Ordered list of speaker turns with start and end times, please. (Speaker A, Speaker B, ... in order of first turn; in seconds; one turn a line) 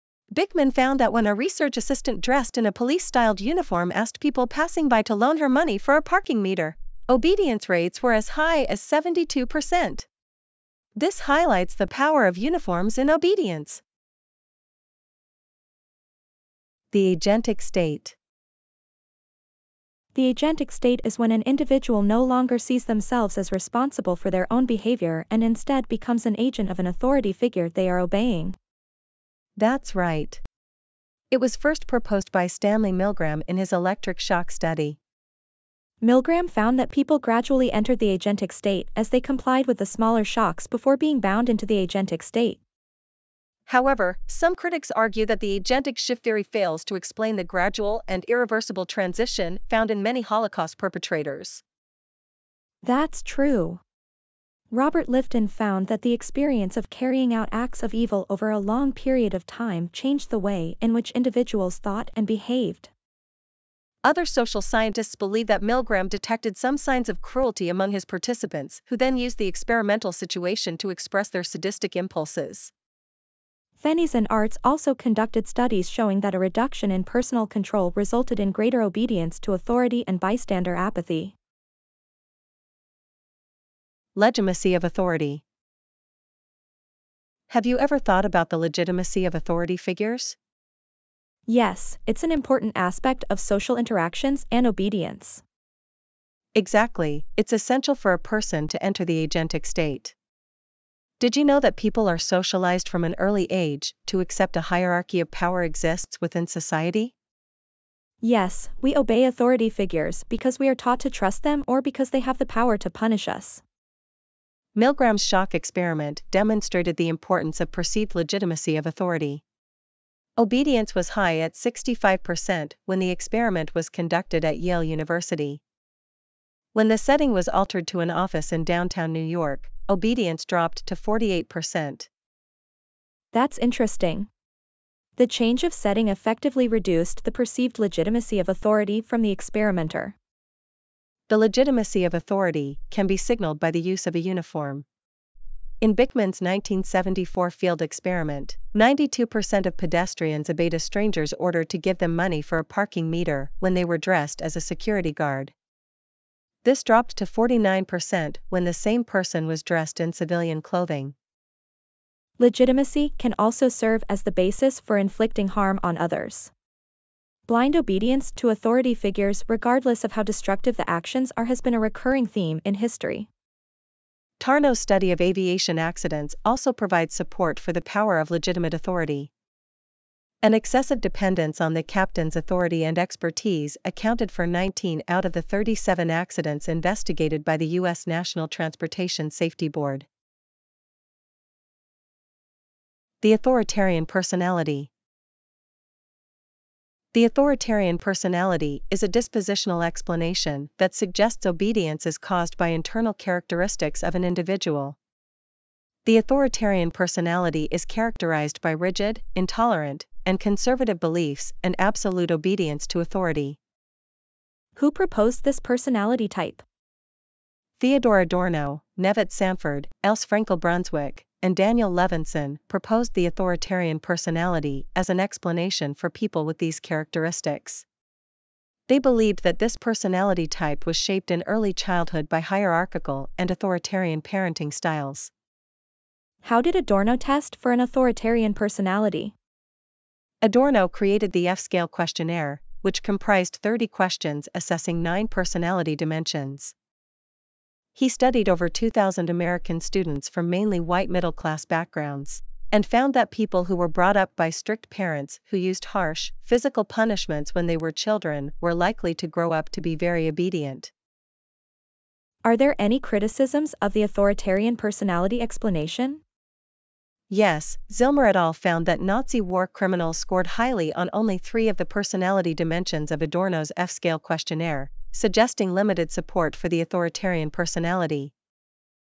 Speaker A: 0.3-10.1
Speaker A: 10.9-13.8
Speaker A: 16.9-18.1
Speaker B: 20.1-28.6
Speaker A: 29.6-30.4
Speaker A: 31.3-35.0
Speaker B: 36.0-42.6
Speaker A: 43.7-51.6
Speaker B: 52.8-53.8
Speaker B: 54.7-62.9
Speaker A: 64.0-72.7
Speaker B: 73.8-81.3
Speaker A: 84.2-85.4
Speaker A: 87.5-90.3
Speaker B: 91.5-95.4
Speaker A: 96.5-100.1
Speaker A: 101.2-107.1
Speaker B: 108.2-113.6
Speaker A: 114.7-119.4
Speaker A: 120.4-125.6
Speaker A: 126.7-132.1
Speaker B: 133.3-134.3
Speaker B: 135.2-140.1
Speaker A: 141.3-144.8
Speaker A: 145.8-155.5
Speaker A: 156.6-161.1
Speaker B: 162.4-166.5
Speaker B: 167.5-173.3
Speaker A: 174.4-179.3
Speaker A: 180.4-190.1
Speaker A: 193.2-194.9
Speaker A: 197.1-205.0
Speaker A: 206.0-213.6
Speaker B: 214.8-216.6
Speaker A: 217.8-227.8
Speaker A: 228.9-235.3
Speaker B: 236.4-239.3
Speaker A: 240.4-246.7
Speaker A: 247.9-260.9
Speaker B: 262.4-266.2
Speaker A: 267.3-278.3